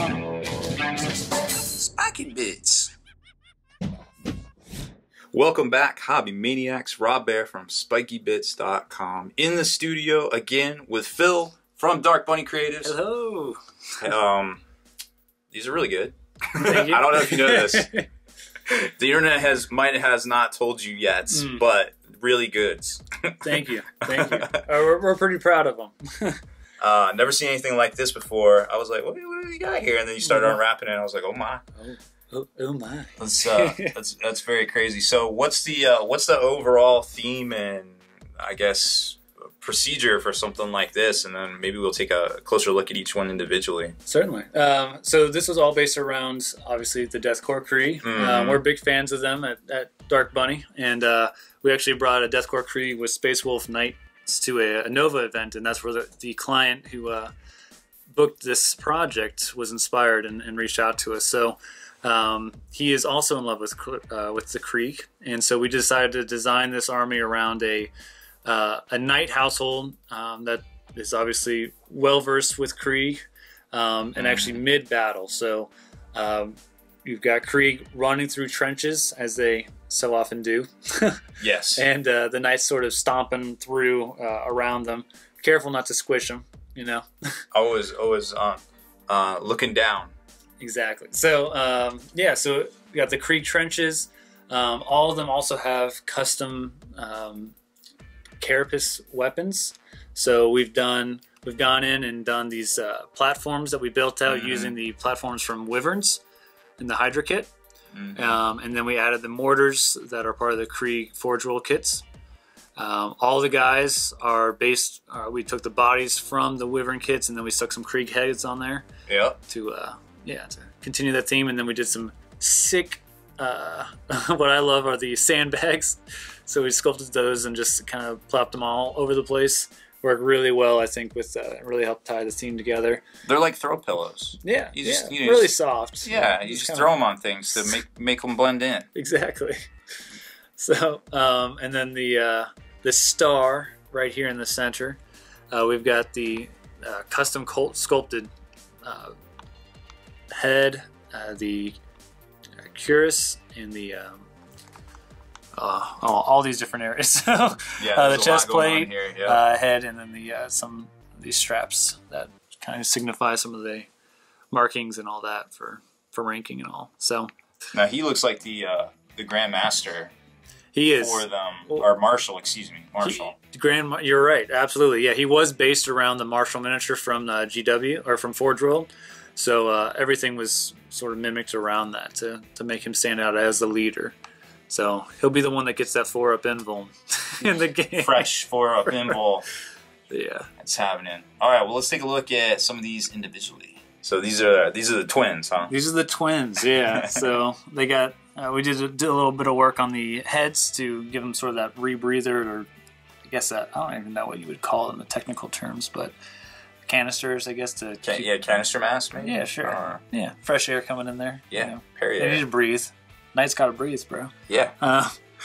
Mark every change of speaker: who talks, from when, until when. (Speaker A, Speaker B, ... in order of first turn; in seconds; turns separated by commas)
Speaker A: 1.7-2.9, Speaker A: 5.3-12.9, Speaker B: 12.8-13.6, Speaker A: 14.0-14.6, Speaker A: 15.5-17.9, Speaker B: 16.6-18.1, Speaker A: 18.6-24.6, Speaker B: 21.3-21.6, Speaker B: 23.4-26.4, Speaker A: 26.8-31.6, Speaker B: 30.2-30.6, Speaker B: 31.8-33.9, Speaker A: 33.2-43.9, Speaker B: 44.0-57.3, Speaker A: 48.0-48.6, Speaker B: 58.1-67.9, Speaker B: 68.4-73.2, Speaker B: 73.7-81.2, Speaker A: 74.2-74.6, Speaker A: 81.4-81.8, Speaker B: 81.8-87.4, Speaker A: 87.5-90.1, Speaker B: 90.6-97.5, Speaker B: 98.4-106.2, Speaker A: 104.3-104.8, Speaker B: 106.8-107.5, Speaker A: 107.9-108.4, Speaker B: 108.1-112.0, Speaker B: 112.8-118.8, Speaker A: 119.1-119.4, Speaker B: 119.5-133.0, Speaker A: 133.2-138.9, Speaker B: 134.4-136.9, Speaker B: 138.9-139.6, Speaker B: 140.6-145.0, Speaker B: 145.5-148.3, Speaker B: 148.8-149.1, Speaker B: 150.3-151.8, Speaker B: 152.6-154.3, Speaker B: 155.5-163.9, Speaker A: 157.8-159.4, Speaker B: 164.5-167.3, Speaker A: 167.7-170.1, Speaker B: 170.7-171.9, Speaker A: 170.9-173.3, Speaker B: 173.0-184.1, Speaker B: 184.7-188.3, Speaker A: 187.5-189.4, Speaker B: 188.8-189.2, Speaker B: 190.1-190.5, Speaker A: 190.6-195.7, Speaker B: 195.7-202.7, Speaker A: 196.9-197.2, Speaker B: 203.2-206.1, Speaker B: 206.8-208.3, Speaker A: 208.0-210.0, Speaker B: 209.2-215.2, Speaker A: 211.5-212.4, Speaker A: 214.5-214.8